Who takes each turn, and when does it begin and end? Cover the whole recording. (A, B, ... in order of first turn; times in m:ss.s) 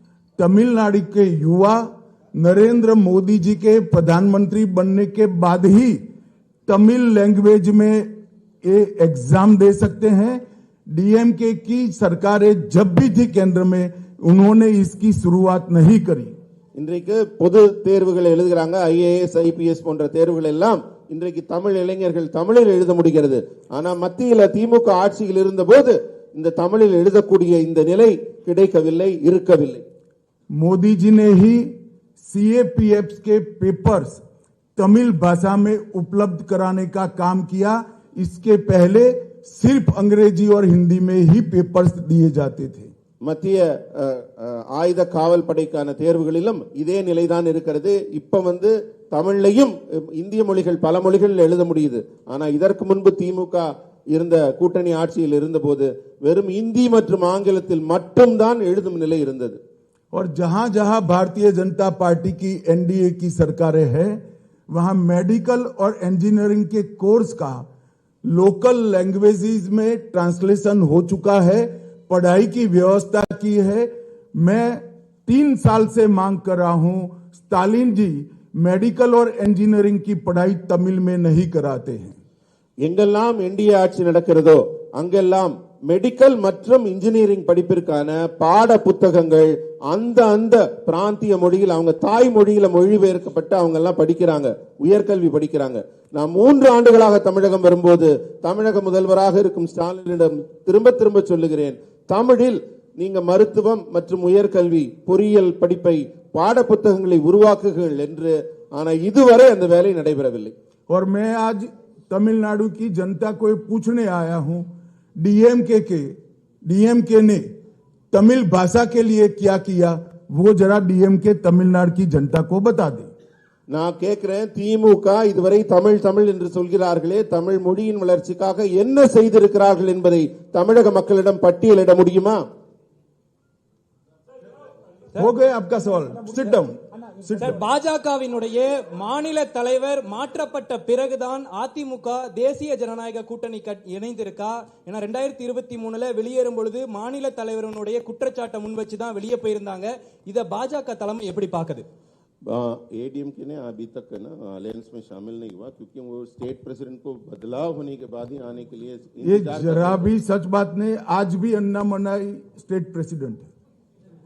0:00.4-0:06.1 A
0:06.7-0:16.4 A
0:16.8-0:29.8 B
0:30.5-0:34.2 A
0:34.8-0:42.9 A
0:43.2-0:59.6 B
1:00.1-1:07.7 A
1:08.2-1:22.2 A
1:22.8-1:50.5 B
1:50.9-1:57.5 A
1:58.1-2:03.1 A
2:03.7-2:12.4 B
2:15.2-2:17.6 A
2:17.3-2:31.8 C
2:32.5-2:40.1 B
2:39.2-2:43.5 A